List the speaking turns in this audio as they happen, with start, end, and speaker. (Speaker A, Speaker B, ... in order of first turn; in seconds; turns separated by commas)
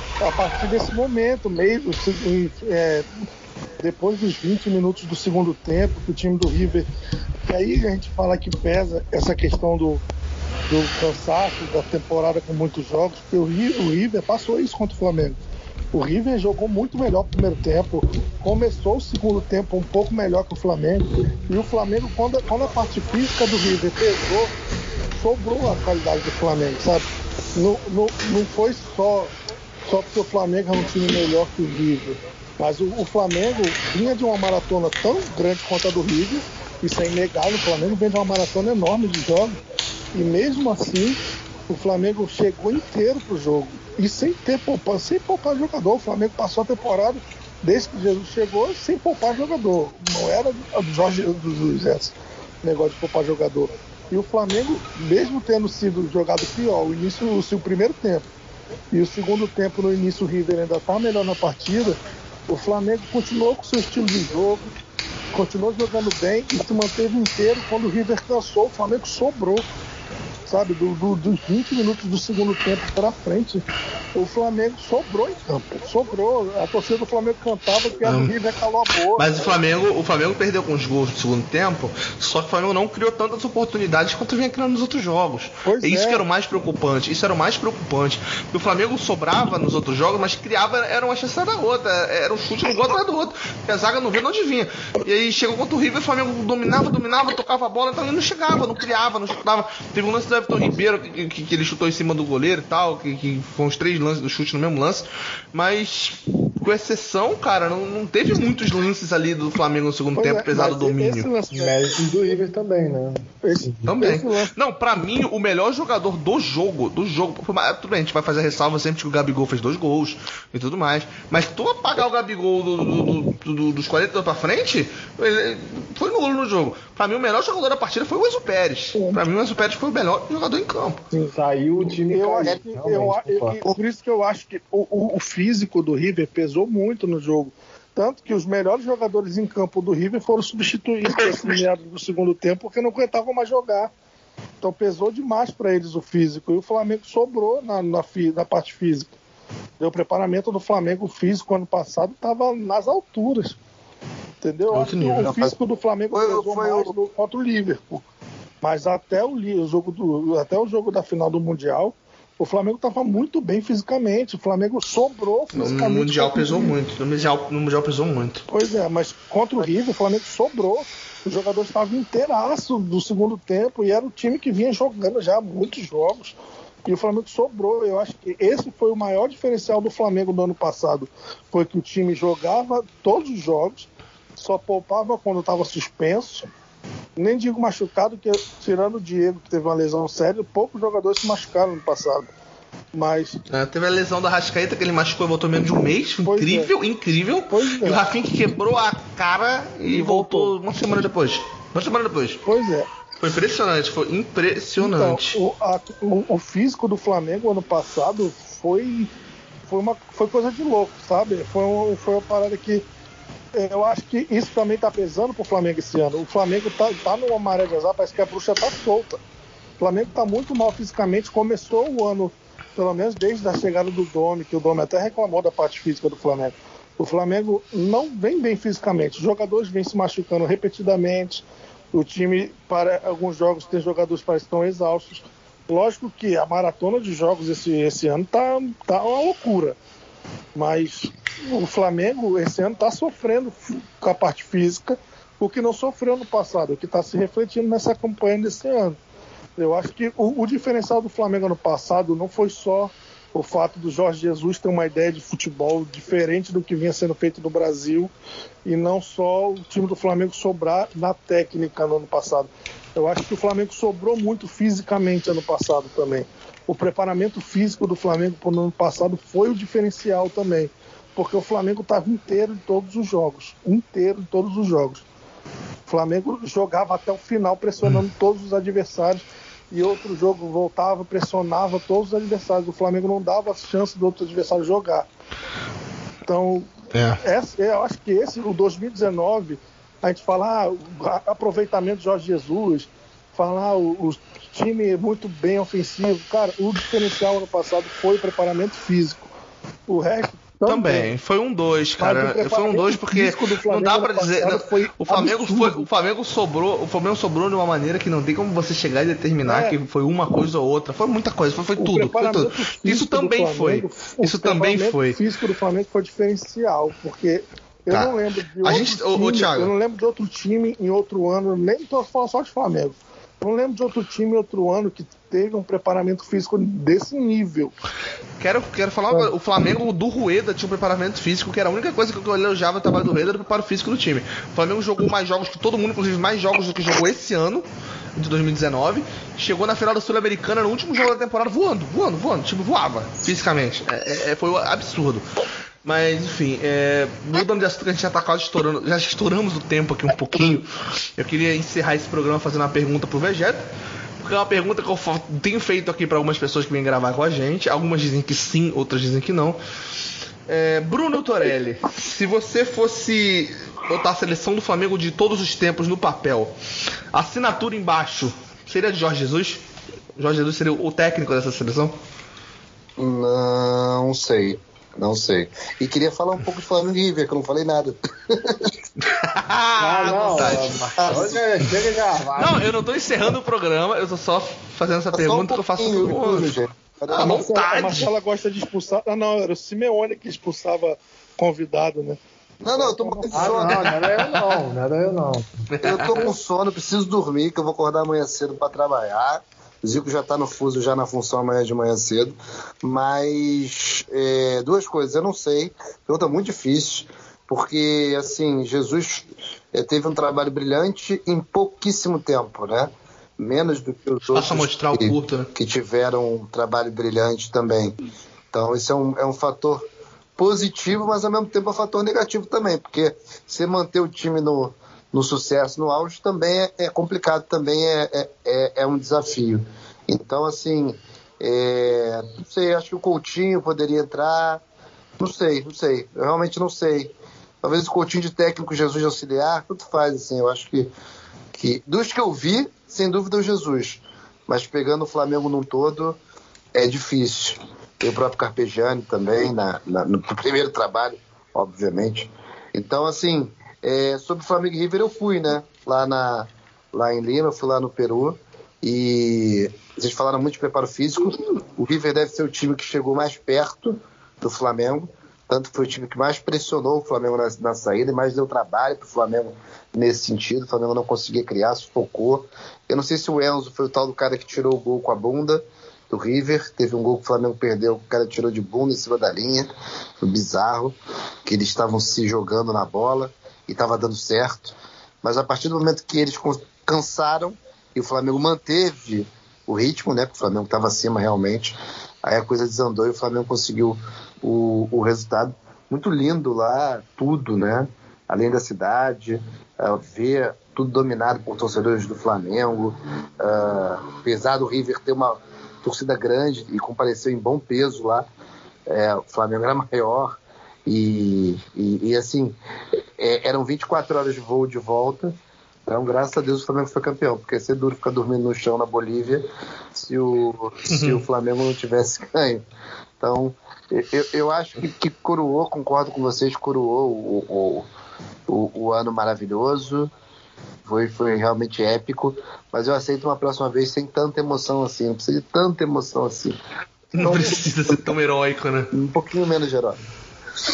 Speaker A: 0.2-3.1, Speaker A: 3.8-6.9, Speaker A: 7.5-10.1, Speaker A: 10.7-24.5, Speaker A: 25.2-29.3, Speaker A: 29.9-39.6, Speaker A: 40.1-58.3, Speaker A: 58.9-64.7, Speaker A: 65.3-69.7, Speaker A: 70.5-79.6, Speaker B: 78.0-78.3, Speaker B: 79.2-111.3, Speaker A: 85.6-86.2, Speaker A: 110.1-112.0, Speaker C: 111.5-113.9, Speaker A: 113.4-114.5, Speaker B: 113.8-131.0, Speaker A: 128.9-129.2, Speaker A: 131.1-143.9, Speaker C: 131.3-133.6, Speaker A: 144.6-149.1, Speaker A: 149.8-153.6, Speaker A: 154.4-158.1, Speaker B: 154.7-155.3, Speaker D: 155.2-155.6, Speaker D: 156.1-156.9, Speaker A: 158.6-166.7, Speaker B: 165.5-168.4, Speaker A: 168.5-186.5, Speaker A: 187.2-192.3, Speaker A: 192.9-193.4, Speaker B: 193.5-202.4, Speaker A: 196.3-196.7, Speaker A: 197.5-198.0, Speaker A: 199.9-200.6, Speaker A: 202.4-202.9, Speaker B: 203.2-205.3, Speaker A: 204.8-209.1, Speaker A: 209.7-212.8, Speaker A: 213.5-219.2, Speaker A: 219.8-239.8, Speaker A: 240.6-249.0, Speaker A: 249.6-258.1, Speaker A: 258.6-275.1, Speaker A: 275.9-285.1, Speaker A: 286.3-299.3, Speaker B: 286.9-287.2, Speaker A: 299.9-301.1, Speaker B: 300.6-315.2, Speaker A: 302.0-305.9, Speaker A: 309.4-309.8, Speaker A: 311.8-327.8, Speaker B: 317.9-319.7, Speaker B: 328.4-345.2, Speaker B: 345.9-353.6, Speaker B: 354.2-359.6, Speaker B: 360.5-366.5, Speaker B: 367.1-369.6, Speaker B: 370.1-371.9, Speaker D: 373.0-378.8, Speaker B: 379.0-381.2, Speaker C: 379.8-382.6, Speaker D: 381.0-381.4, Speaker B: 382.4-386.6, Speaker D: 385.1-387.9, Speaker B: 387.1-388.1, Speaker A: 387.1-393.6, Speaker D: 392.6-393.9, Speaker C: 393.3-395.5, Speaker B: 393.7-394.6, Speaker B: 395.7-396.3, Speaker D: 395.8-418.0, Speaker B: 414.3-415.5, Speaker D: 418.5-419.9, Speaker D: 420.4-434.6, Speaker D: 435.2-440.9, Speaker D: 441.6-446.2, Speaker D: 446.7-508.3, Speaker D: 508.9-512.6, Speaker D: 513.2-522.6, Speaker B: 520.9-521.2, Speaker D: 523.2-527.9, Speaker D: 528.5-530.1, Speaker D: 530.9-536.6, Speaker D: 537.1-538.0, Speaker B: 537.1-538.9, Speaker D: 538.9-540.0